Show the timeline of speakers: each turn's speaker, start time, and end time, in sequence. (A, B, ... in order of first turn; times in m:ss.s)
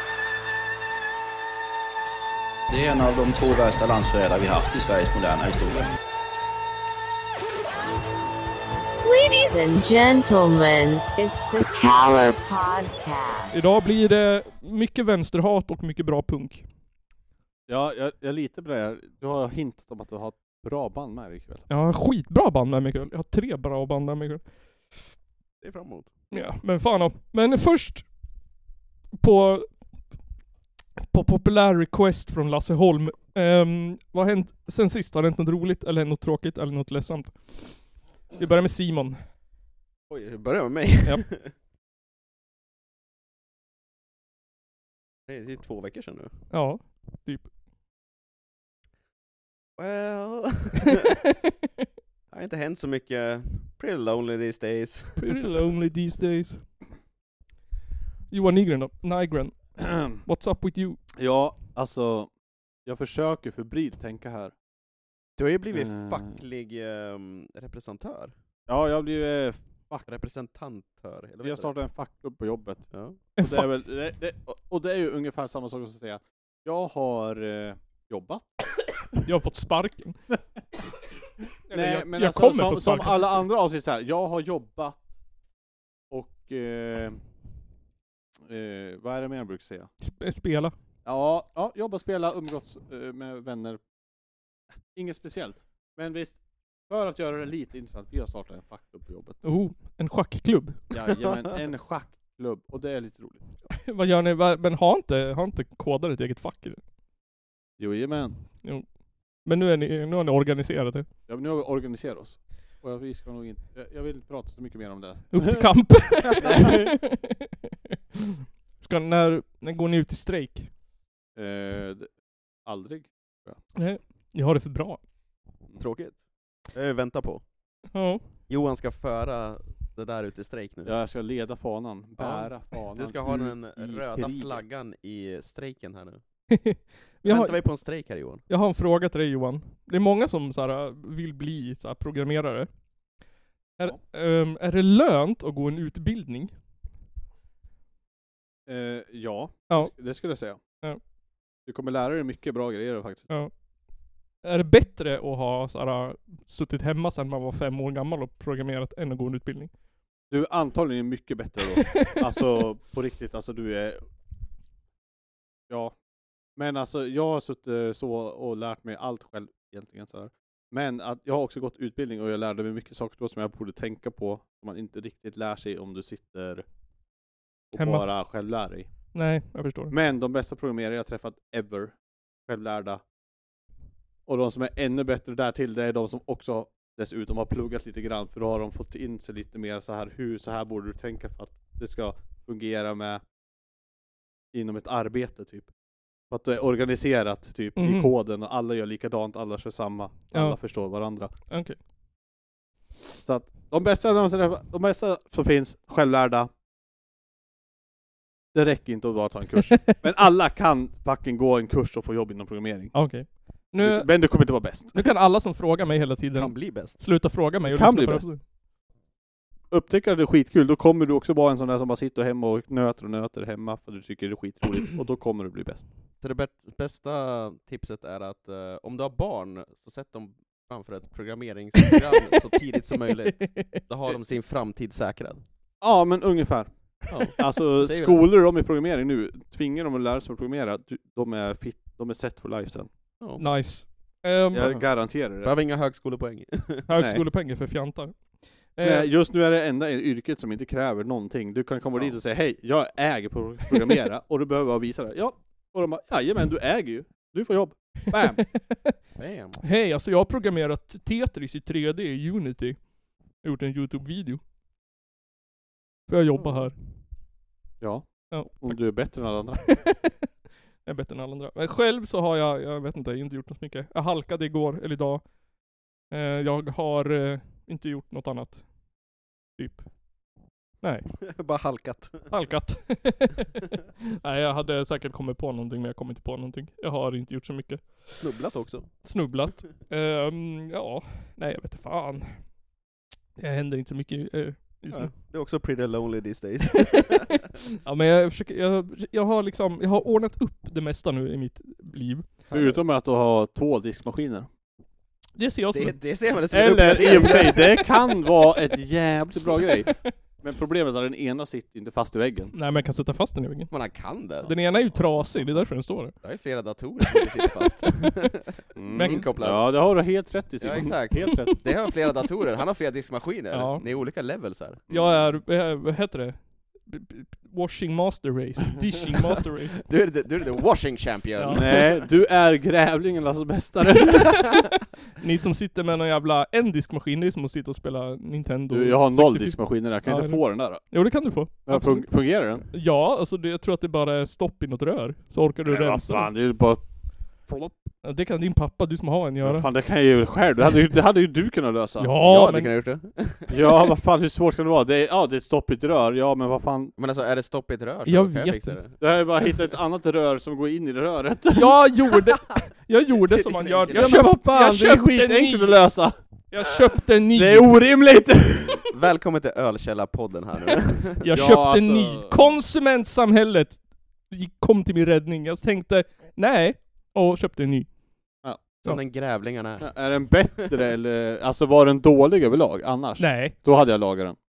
0:02.7-0:05.9 A
0:09.0-0:13.5 B
0:13.5-0:16.7 C
0:17.7-0:21.6 D
0:21.7-0:24.4 C
0:25.6-0:26.1 E
0:26.3-0:28.1 C
0:29.2-0:29.8 C
0:31.0-0:39.2 C
0:40.1-0:41.5 E
0:45.3-0:46.3 E
0:46.5-0:47.5 C
0:49.8-0:51.0 E
0:52.3-0:55.4 E
0:55.2-0:56.6 C
0:58.3-1:01.0 C
0:59.8-1:00.2 D
1:01.2-1:02.3 D
1:02.9-1:04.5 D
1:05.4-1:08.3 E
1:05.7-1:06.3 D
1:08.7-1:10.1 D
1:10.1-1:11.7 E
1:11.4-1:18.5 D
1:12.9-1:13.2 E
1:13.4-1:13.7 C
1:19.2-1:20.2 C
1:21.7-1:23.4 C
1:21.7-1:25.0 D
1:26.1-1:27.2 D
1:28.5-1:29.9 D
1:30.0-1:30.8 C
1:31.0-1:33.8 D
1:34.9-1:39.4 D
1:39.4-1:40.8 C
1:40.9-1:43.4 D
1:43.8-1:46.8 C
1:47.8-1:48.4 D
1:49.4-1:51.1 C
1:51.3-1:55.8 D
1:55.3-1:57.5 C
1:56.4-1:57.0 D
1:58.8-2:00.7 C
2:01.4-2:02.1 D
2:02.7-2:03.6 D
2:03.8-2:05.0 C
2:05.8-2:06.2 E
2:06.7-2:07.4 E
2:07.9-2:08.2 C
2:08.5-2:11.0 E
2:10.9-2:14.6 D
2:12.2-2:16.2 E
2:16.5-2:17.6 C
2:17.2-2:18.4 E
2:18.5-2:22.7 C
2:23.8-2:26.5 C
2:28.7-2:30.6 D
2:31.7-2:33.3 D
2:34.4-2:39.7 C
2:40.3-2:44.0 D
2:45.7-2:46.0 D
2:46.6-2:56.6 D
2:57.7-2:59.0 D
2:57.8-2:58.1 C
2:59.1-3:00.0 C
2:59.9-3:02.0 D
3:02.5-3:03.0 D
3:04.3-3:13.2 D
3:14.5-3:15.7 D
3:16.3-3:21.3 D
3:17.8-3:18.1 C
3:20.3-3:20.6 C
3:21.5-3:21.8 C
3:23.2-3:26.5 D
3:28.5-3:33.0 D
3:32.9-3:38.4 C
3:33.8-3:35.0 D
3:36.3-3:37.0 E
3:37.6-3:38.3 D
3:39.7-3:45.8 D
3:46.2-3:55.4 E
3:53.3-3:53.8 C
3:55.8-3:56.7 D
3:57.1-3:58.2 E
3:57.3-4:02.9 D
4:03.2-4:03.9 E
4:03.4-4:04.8 C
4:04.5-4:05.5 D
4:05.4-4:06.9 E
4:06.9-4:09.1 C
4:07.0-4:07.2 D
4:08.8-4:18.4 D
4:18.4-4:18.9 C
4:19.2-4:19.6 E
4:19.6-4:24.4 C
4:26.1-4:26.8 C
4:26.4-4:26.8 E
4:27.8-4:29.7 D
4:28.3-4:30.1 C
4:30.8-4:35.3 C
4:36.1-4:38.7 C
4:39.6-4:40.0 C
4:40.8-4:41.2 C
4:41.3-4:42.3 E
4:42.3-4:43.7 C
4:44.2-4:48.2 C
4:48.1-4:49.1 E
4:49.0-4:52.5 C
4:53.4-4:55.1 C
4:54.9-4:57.5 E
4:57.8-5:02.3 C
5:02.5-5:02.8 E
5:02.5-5:04.5 D
5:05.4-5:06.0 C
5:05.7-5:07.8 E
5:06.5-5:12.5 D
5:07.2-5:07.6 C
5:12.5-5:13.7 C
5:13.7-5:14.5 E
5:14.4-5:16.1 C
5:16.2-5:19.7 E
5:18.8-5:21.6 D
5:18.9-5:19.3 C
5:20.6-5:24.8 E
5:23.5-5:23.8 C
5:24.9-5:25.3 D
5:24.9-5:29.8 C
5:29.9-5:31.9 E
5:31.4-5:31.6 C
5:31.5-5:34.4 D
5:35.2-5:46.3 C
5:38.7-5:40.8 D
5:41.7-5:42.6 D
5:45.6-5:46.8 D
5:47.4-5:47.9 D
5:48.0-5:49.7 C
5:49.4-5:52.1 D
5:52.0-5:52.7 C
5:52.2-5:53.5 E
5:53.5-5:56.9 D
5:57.0-5:59.0 E
5:58.1-5:58.8 C
5:59.0-6:01.9 D
6:01.5-6:05.8 C
6:03.3-6:04.2 E
6:03.9-6:06.2 D
6:06.5-6:07.8 C
6:07.4-6:08.8 D
6:08.8-6:11.3 E
6:11.2-6:17.9 C
6:11.3-6:12.6 D
6:18.4-6:18.8 D
6:18.8-6:19.9 E
6:19.8-6:24.4 D
6:23.2-6:23.6 C